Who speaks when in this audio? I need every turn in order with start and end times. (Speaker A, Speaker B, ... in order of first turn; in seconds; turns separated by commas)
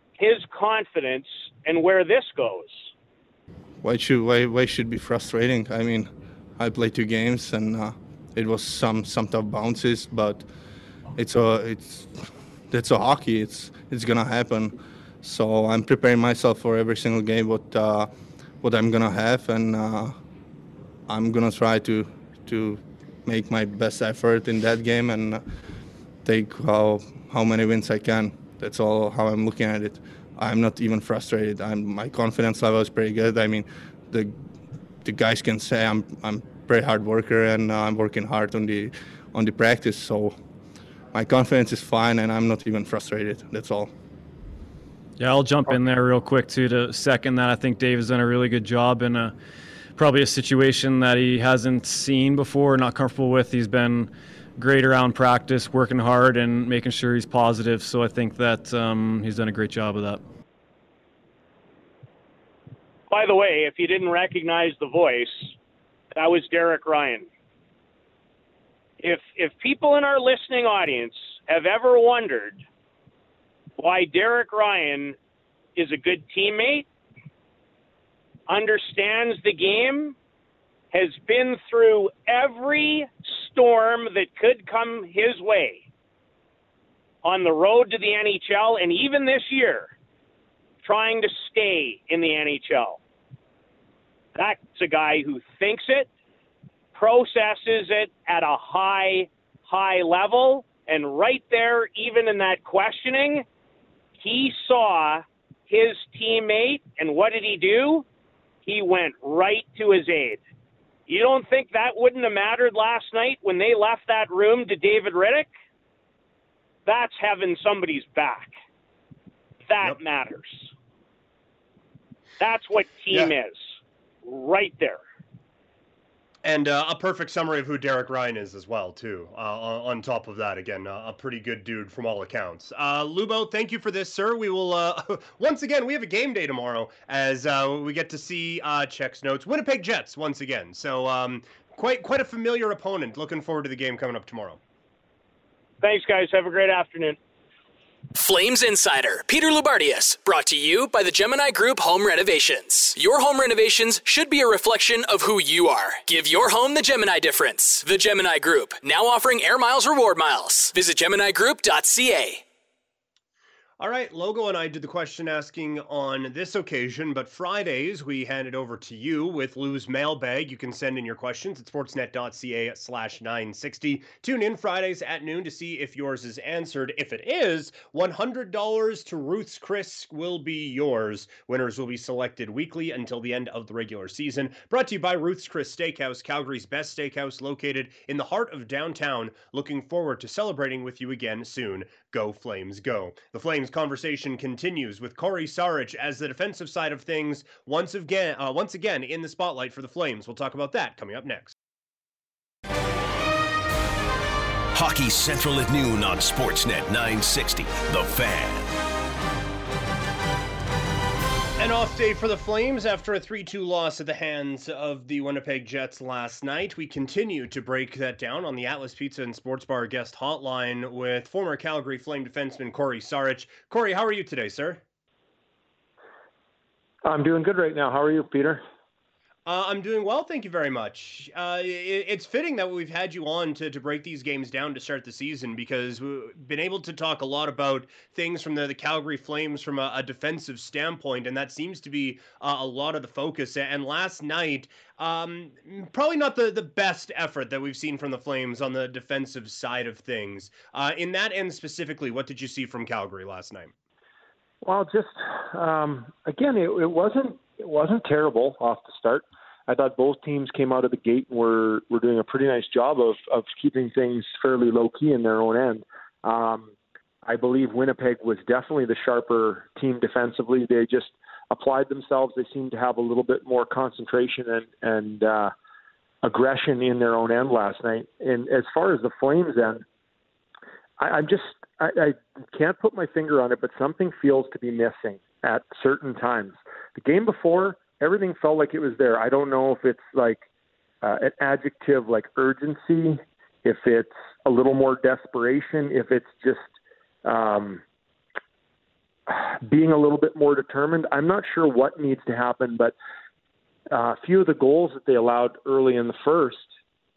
Speaker A: 0.2-2.9, Speaker B: 3.8-10.5, Speaker B: 11.1-20.2, Speaker B: 21.1-25.4, Speaker B: 26.2-34.4, Speaker B: 35.0-40.4, Speaker B: 41.1-43.9, Speaker C: 45.2-49.4, Speaker C: 50.0-60.2, Speaker A: 63.1-65.5, Speaker A: 66.1-67.3, Speaker A: 69.0-72.6, Speaker A: 73.8-75.2, Speaker A: 75.8-76.8, Speaker A: 78.5-80.1, Speaker A: 80.9-85.8, Speaker A: 87.2-89.9, Speaker A: 90.8-93.0, Speaker A: 94.3-96.1, Speaker A: 96.9-103.5, Speaker A: 104.2-108.0, Speaker A: 108.7-110.4, Speaker A: 111.1-115.5, Speaker A: 116.8-118.5, Speaker A: 119.7-120.7, Speaker A: 122.4-125.0, Speaker D: 126.4-144.6, Speaker A: 145.8-147.2, Speaker E: 148.1-162.4, Speaker D: 163.8-201.5, Speaker F: 204.7-208.8, Speaker D: 211.6-224.8, Speaker G: 227.0-228.6, Speaker D: 229.4-253.7, Speaker G: 254.6-266.7, Speaker G: 267.2-275.5, Speaker G: 276.2-279.8, Speaker G: 281.0-290.4, Speaker G: 291.0-296.7, Speaker G: 297.2-297.8, Speaker G: 299.3-302.9, Speaker G: 303.9-306.6